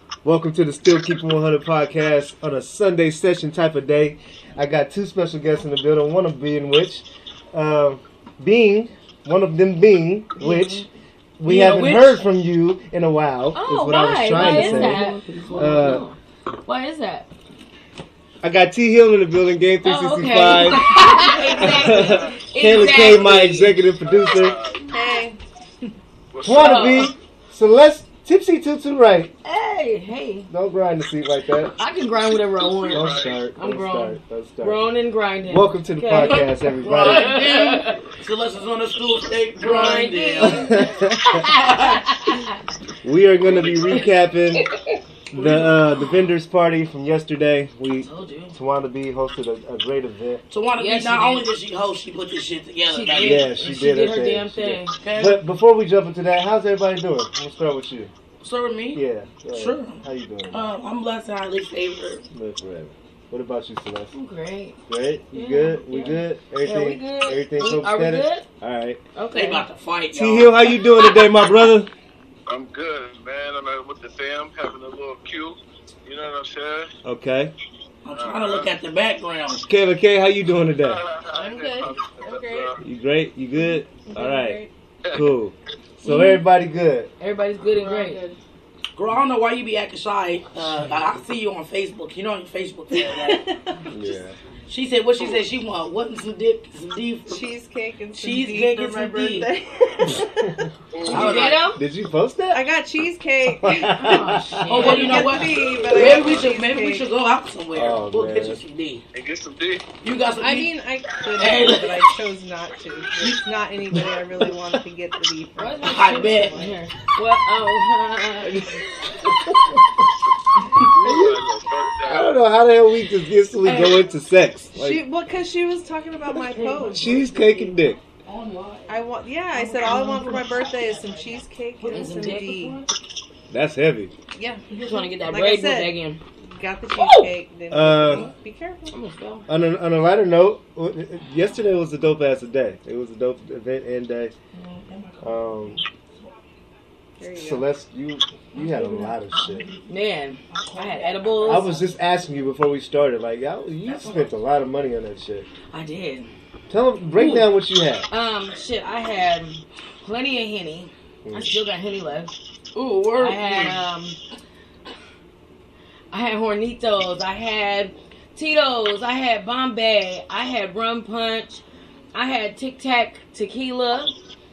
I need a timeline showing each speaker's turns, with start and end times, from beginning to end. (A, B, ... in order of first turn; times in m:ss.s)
0:00.2-0:10.8 A
0:10.4-0:10.8 B
0:11.4-0:16.0 A
0:11.4-0:12.2 C
0:13.5-0:17.3 B
0:14.3-0:16.0 C
0:18.4-0:20.9 A
0:19.8-0:23.8 B
0:20.7-0:21.6 D
0:21.5-0:24.6 A
0:21.6-0:23.1 E
0:24.0-0:24.9 E
0:24.9-0:25.4 D
0:24.9-0:25.2 B
0:26.3-0:27.0 E
0:26.4-0:29.3 A
0:26.6-0:27.1 B
0:29.4-0:30.5 B
0:30.5-0:31.7 A
0:31.8-0:38.0 B
0:32.3-0:33.4 E
0:32.9-0:34.9 A
0:35.5-0:37.3 A
0:36.2-0:40.8 C
0:39.6-0:42.6 B
0:40.4-0:41.4 A
0:41.5-0:42.2 C
0:43.0-0:44.6 A
0:43.4-0:44.1 E
0:45.3-0:50.4 A
0:48.0-0:48.6 B
0:50.5-0:53.5 C
0:50.8-0:51.5 B
0:52.8-0:54.9 B
0:53.2-0:58.1 A
0:55.0-0:55.4 C
0:58.4-0:59.0 C
0:58.9-1:00.7 A
0:59.5-1:02.2 C
1:02.3-1:04.1 A
1:04.1-1:04.8 B
1:04.9-1:09.0 A
1:05.3-1:08.4 B
1:09.1-1:09.6 B
1:09.3-1:10.8 C
1:10.1-1:11.9 A
1:12.5-1:16.9 E
1:17.0-1:17.5 A
1:18.0-1:19.6 C
1:18.1-1:18.7 E
1:19.7-1:21.0 A
1:20.7-1:22.8 E
1:21.2-1:22.7 D
1:22.8-1:24.6 A
1:23.9-1:24.7 D
1:25.0-1:25.3 E
1:25.1-1:27.1 A
1:26.0-1:26.4 B
1:27.2-1:28.2 B
1:27.8-1:28.4 D
1:28.9-1:33.4 C
1:32.9-1:33.9 D
1:33.9-1:34.4 A
1:34.7-1:37.5 C
1:37.3-1:40.6 D
1:38.2-1:39.5 C
1:40.1-1:42.6 A
1:40.9-1:41.5 E
1:41.1-1:41.8 B
1:41.1-1:41.7 C
1:42.5-1:44.0 D
1:43.4-1:45.0 A
1:43.7-1:45.5 B
1:44.7-1:49.0 C
1:44.7-1:47.1 D
1:45.5-1:46.4 E
1:47.7-1:48.6 A
1:49.1-1:49.8 E
1:50.0-1:50.7 C
1:50.4-1:56.7 D
1:51.3-1:52.1 C
1:55.6-1:58.8 B
1:55.9-1:56.7 C
1:59.2-1:59.8 A
2:00.8-2:02.3 E
2:01.0-2:01.4 A
2:02.0-2:05.0 A
2:03.6-2:04.0 C
2:04.7-2:07.3 D
2:06.4-2:07.0 B
2:06.5-2:09.0 C
2:06.9-2:08.0 A
2:08.9-2:12.8 D
2:09.5-2:11.2 B
2:09.8-2:10.4 C
2:11.8-2:12.9 B
2:11.9-2:12.4 C
2:13.5-2:14.1 A
2:14.3-2:14.6 D
2:14.7-2:15.2 C
2:14.7-2:16.2 B
2:15.2-2:15.9 D
2:16.5-2:18.9 D
2:16.9-2:17.3 B
2:17.7-2:18.3 A
2:18.0-2:18.3 C
2:18.9-2:19.5 B
2:19.5-2:24.3 A
2:24.5-2:25.5 C
2:25.2-2:25.8 A
2:27.2-2:27.6 D
2:27.4-2:29.7 A
2:28.5-2:29.8 C
2:29.9-2:31.8 B
2:30.5-2:31.9 C
2:31.4-2:35.5 A
2:33.8-2:34.3 C
2:35.7-2:36.3 B
2:36.7-2:38.1 A
2:37.2-2:37.4 B
2:38.1-2:42.3 B
2:41.2-2:41.6 A
2:42.7-2:43.8 C
2:43.2-2:44.2 B
2:46.1-2:51.6 B
2:52.1-2:54.1 B